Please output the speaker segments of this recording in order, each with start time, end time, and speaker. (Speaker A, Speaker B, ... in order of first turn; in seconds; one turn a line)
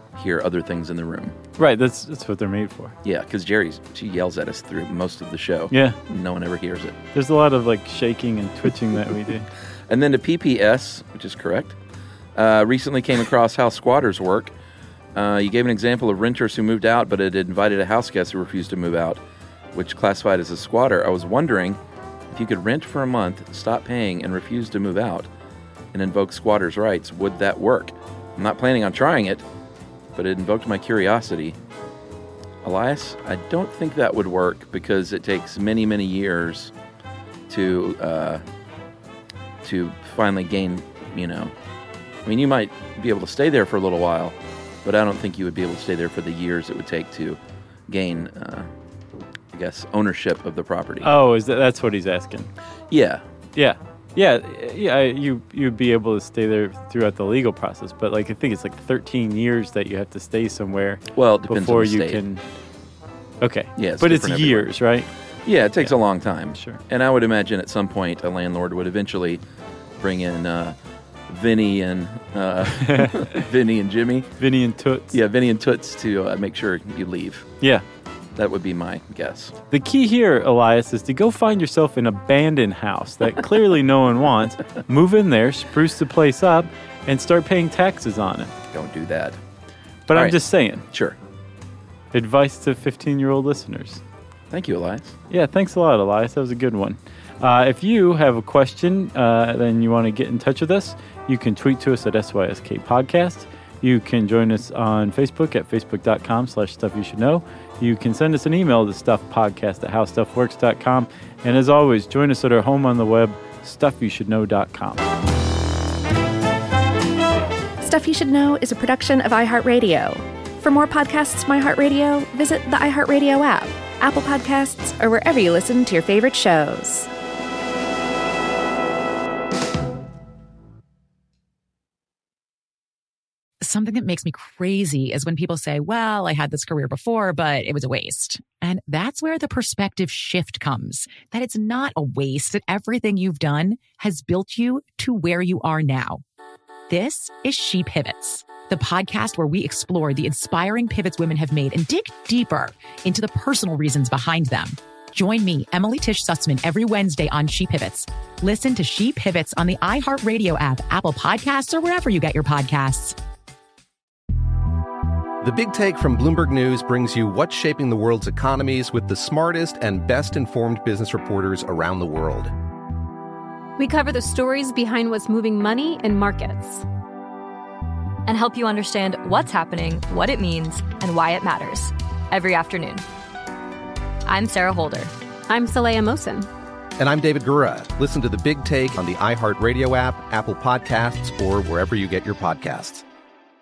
Speaker A: 0.2-1.4
Speaker B: 1.6-3.0
Speaker A: 3.0-7.0
Speaker B: 5.7-6.0
Speaker B: 7.2-9.5
Speaker A: 9.9-11.8
Speaker A: 12.4-14.5
Speaker A: 15.2-19.2
Speaker A: 19.7-21.8
Speaker A: 22.3-25.3
Speaker A: 25.9-29.4
Speaker A: 30.1-31.6
Speaker A: 32.6-36.7
Speaker A: 37.5-38.4
Speaker A: 39.6-41.5
Speaker A: 42.2-48.7
Speaker A: 49.5-51.1
Speaker B: 51.0-52.5
Speaker A: 52.9-53.2
Speaker B: 53.6-62.4
Speaker A: 61.1-62.2
Speaker B: 63.4-65.1
Speaker A: 63.8-64.7
Speaker A: 65.5-69.4
Speaker B: 66.5-66.8
Speaker A: 70.0-70.8
Speaker A: 71.3-74.3
Speaker B: 72.8-73.4
Speaker B: 74.4-75.2
Speaker A: 75.1-77.5
Speaker A: 78.4-79.5
Speaker B: 79.7-88.5
Speaker A: 88.7-89.4
Speaker B: 90.1-90.8
Speaker A: 90.9-91.2
Speaker B: 92.1-94.0
Speaker A: 94.5-95.2
Speaker B: 95.3-115.0
Speaker C: 117.8-127.1
Speaker D: 133.6-146.2
Speaker D: 146.9-163.2
Speaker E: 165.4-172.5
Speaker F: 173.8-176.8
Speaker G: 178.3-183.0
Speaker G: 184.3-185.1
Speaker F: 185.5-186.5
Speaker E: 187.0-193.0